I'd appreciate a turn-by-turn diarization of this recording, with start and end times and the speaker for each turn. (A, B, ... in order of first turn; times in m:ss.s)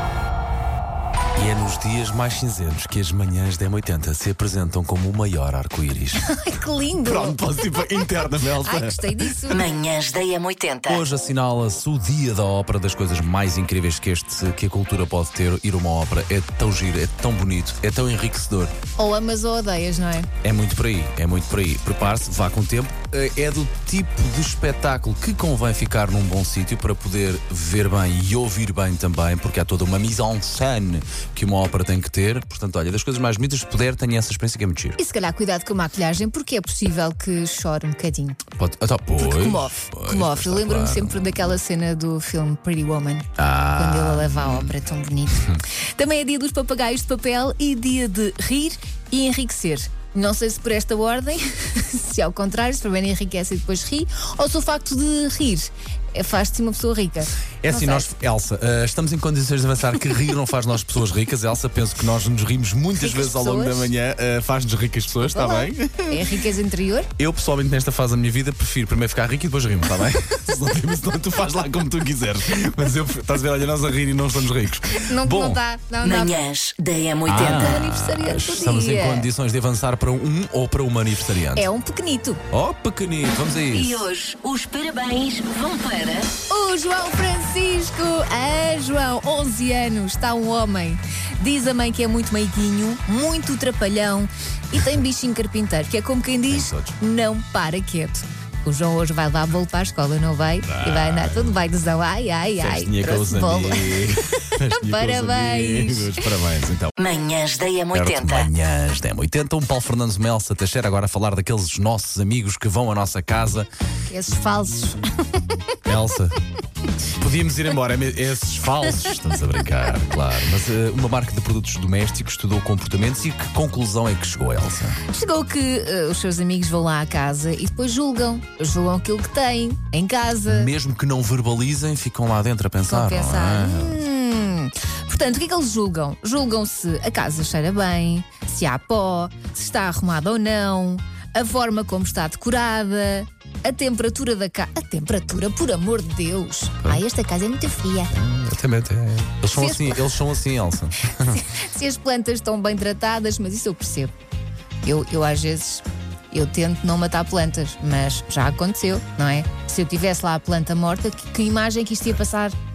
0:01.4-0:06.3 A
0:06.2-0:07.4 B
0:07.0-0:09.5 A
0:08.2-0:09.7 B
0:09.5-0:11.0 C
0:10.9-0:18.8 A
0:19.0-0:20.3 B
0:20.4-0:35.0 A
0:35.0-0:38.4 B
0:38.5-0:41.6 A
0:39.2-0:58.1 B
0:43.4-0:44.7 A
0:57.6-1:06.3 A
1:03.0-1:03.9 B
1:05.3-1:07.1 B
1:07.2-1:15.6 A
1:15.0-1:16.4 B
1:16.0-1:17.8 C
1:17.2-1:21.7 A
1:17.4-1:19.3 B
1:21.5-1:22.4 B
1:22.5-1:24.1 A
1:23.7-1:26.3 C
1:26.5-1:46.2 B
1:36.5-1:37.0 A
1:40.6-1:41.6 A
1:42.6-1:47.0 A
1:47.0-1:48.5 C
1:47.9-1:53.7 A
1:54.1-1:55.6 B
1:55.8-1:56.4 A
1:57.2-2:05.0 A
2:05.1-2:10.7 B
2:10.5-2:14.0 A
2:12.9-2:28.1 B
2:28.1-2:31.4 A
2:29.5-2:30.2 B
2:31.2-2:34.1 B
2:34.8-2:42.6 B